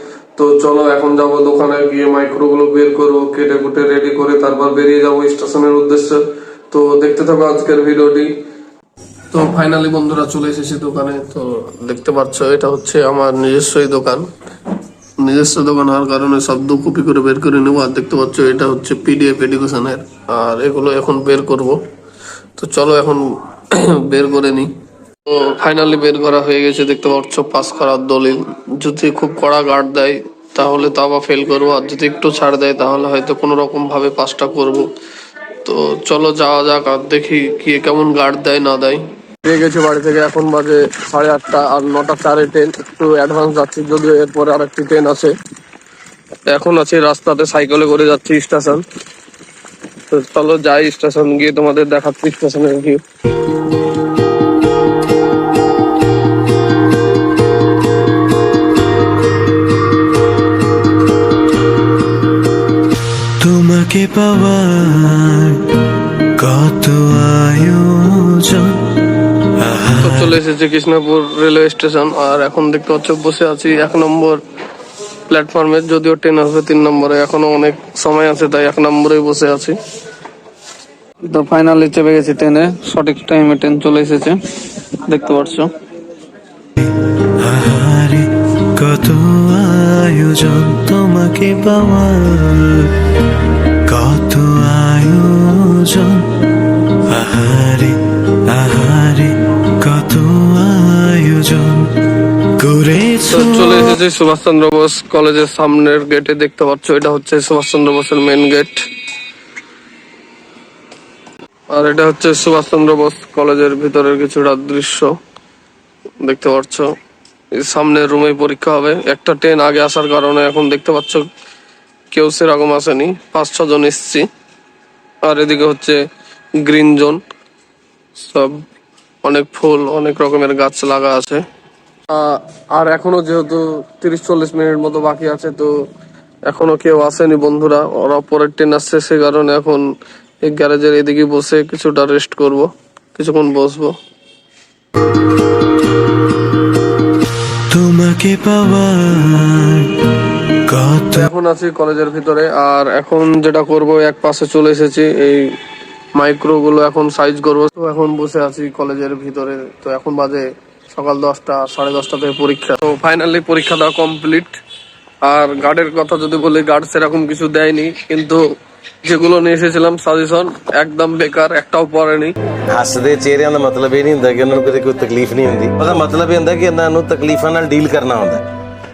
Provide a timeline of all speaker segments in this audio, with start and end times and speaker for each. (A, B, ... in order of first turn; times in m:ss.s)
0:00.4-0:08.3 A
0:09.3-0:14.3 A
0:15.2-0:21.8 A
0:22.6-0:24.7 A
0:25.3-0:34.9 A
0:35.6-0:45.3 A
0:46.5-0:48.8 A
0:50.1-0:53.0 A
1:03.4-1:05.7 B
1:06.4-1:08.9 B
1:09.5-1:10.3 B
1:10.0-1:14.4 A
1:15.3-1:19.8 A
1:21.3-1:24.4 A
1:25.0-1:25.7 A
1:26.8-1:32.9 B
1:33.8-1:36.3 B
1:36.9-1:44.0 B
1:43.2-1:48.8 A
1:51.7-1:55.1 A
1:56.2-1:56.9 A
1:57.5-2:01.2 A
2:02.1-2:04.3 A
2:05.2-2:06.0 A
2:06.6-2:07.2 A
2:08.2-2:08.6 A
2:09.2-2:11.4 A
2:12.1-2:15.8 A
2:16.5-2:19.9 A
2:20.4-2:23.9 A
2:27.7-2:30.0 B
2:30.7-2:31.3 B
2:31.1-2:35.5 A
2:36.1-2:44.6 A
2:45.2-2:48.5 A
2:49.0-2:52.3 A
2:52.7-2:58.4 C